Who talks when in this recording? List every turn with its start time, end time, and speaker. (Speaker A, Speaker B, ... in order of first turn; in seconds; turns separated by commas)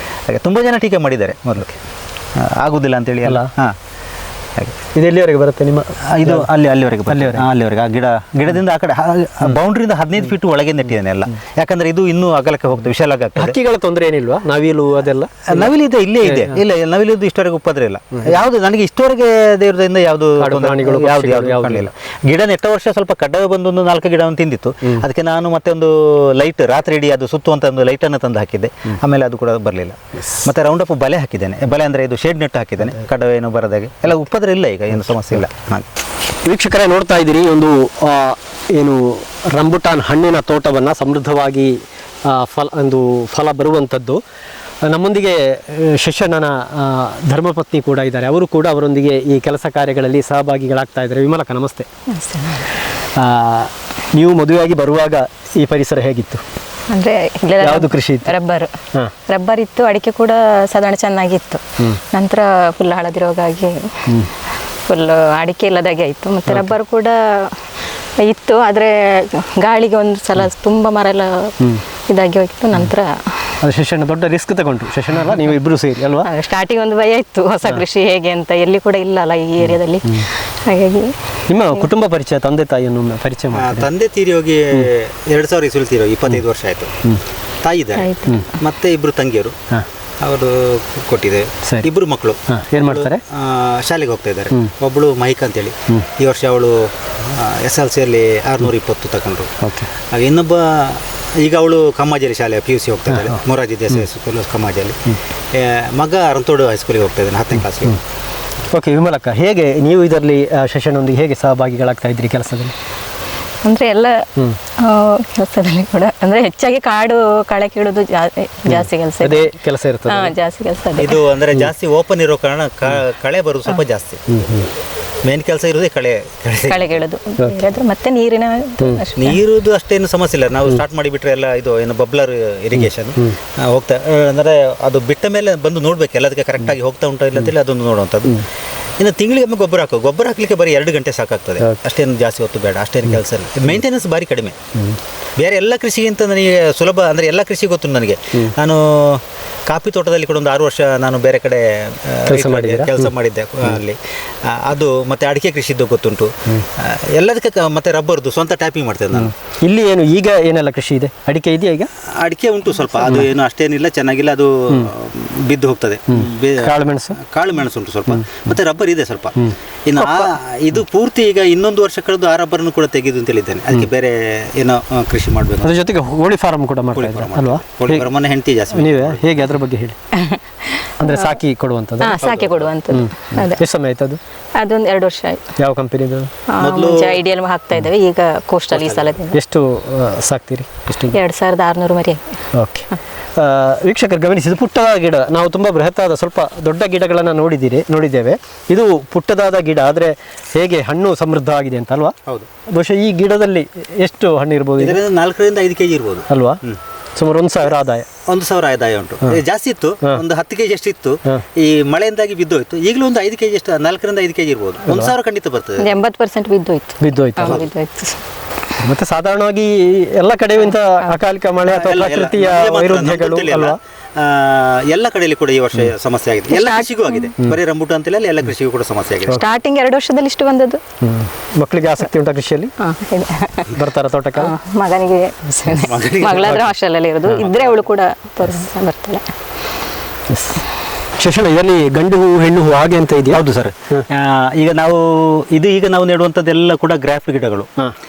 Speaker A: 0.3-1.7, Speaker A: 2.4-3.8, Speaker B: 3.2-3.5, Speaker B: 5.0-6.5, Speaker A: 6.1-13.6, Speaker B: 7.1-7.5, Speaker B: 13.4-15.7, Speaker A: 15.5-35.9, Speaker B: 16.2-16.6, Speaker B: 20.4-21.9, Speaker B: 36.5-44.2, Speaker B: 44.9-51.9, Speaker C: 52.1-52.7, Speaker B: 53.1-56.4, Speaker C: 56.9-58.7, Speaker B: 57.6-58.3, Speaker C: 59.3-64.1, Speaker C: 64.9-67.6, Speaker B: 66.5-66.7, Speaker C: 68.2-71.5, Speaker C: 72.1-73.5, Speaker B: 73.6-76.3, Speaker C: 76.2-81.2, Speaker B: 79.6-80.3, Speaker B: 81.5-83.9, Speaker A: 83.5-86.9, Speaker A: 87.6-89.6, Speaker C: 88.0-88.4, Speaker A: 90.2-108.0, Speaker B: 91.6-91.9, Speaker B: 92.5-93.2, Speaker B: 99.6-99.9, Speaker B: 103.1-103.4, Speaker B: 108.7-112.8, Speaker C: 113.6-114.2, Speaker C: 114.8-119.5, Speaker B: 118.7-120.3, Speaker C: 120.1-121.2, Speaker A: 121.0-124.2, Speaker B: 124.3-124.7, Speaker A: 125.2-127.0, Speaker C: 126.7-129.4, Speaker B: 127.4-127.7, Speaker A: 129.2-138.4, Speaker A: 139.0-144.6, Speaker B: 141.6-141.8, Speaker A: 145.4-159.3, Speaker B: 152.3-153.1, Speaker B: 159.2-161.9, Speaker A: 162.0-169.3, Speaker B: 166.1-167.2, Speaker B: 168.1-168.4, Speaker B: 169.4-170.3, Speaker A: 169.9-175.8, Speaker B: 175.6-178.1, Speaker A: 176.9-179.2, Speaker B: 178.7-180.0, Speaker C: 180.2-181.3, Speaker B: 181.0-182.2, Speaker C: 182.0-183.6, Speaker A: 182.2-182.7, Speaker B: 182.9-184.2, Speaker C: 184.6-185.4, Speaker B: 185.6-186.3, Speaker C: 186.5-189.4, Speaker A: 186.6-187.2, Speaker B: 188.9-191.2, Speaker C: 191.1-192.2, Speaker B: 192.6-202.2, Speaker B: 202.7-205.0, Speaker A: 204.8-206.8, Speaker B: 206.3-206.6, Speaker B: 207.2-208.1, Speaker A: 208.2-216.0, Speaker B: 214.9-215.1, Speaker C: 215.8-218.2, Speaker B: 217.0-217.6, Speaker A: 217.4-217.7, Speaker B: 218.8-223.8, Speaker C: 220.7-221.1, Speaker A: 221.7-229.4, Speaker C: 226.5-227.3, Speaker C: 229.3-230.8, Speaker B: 231.0-232.7, Speaker C: 232.8-233.8, Speaker B: 233.7-234.5, Speaker C: 234.4-239.3, Speaker A: 235.7-236.7, Speaker B: 237.3-237.6, Speaker B: 240.3-240.6, Speaker B: 241.2-244.1, Speaker A: 243.3-247.7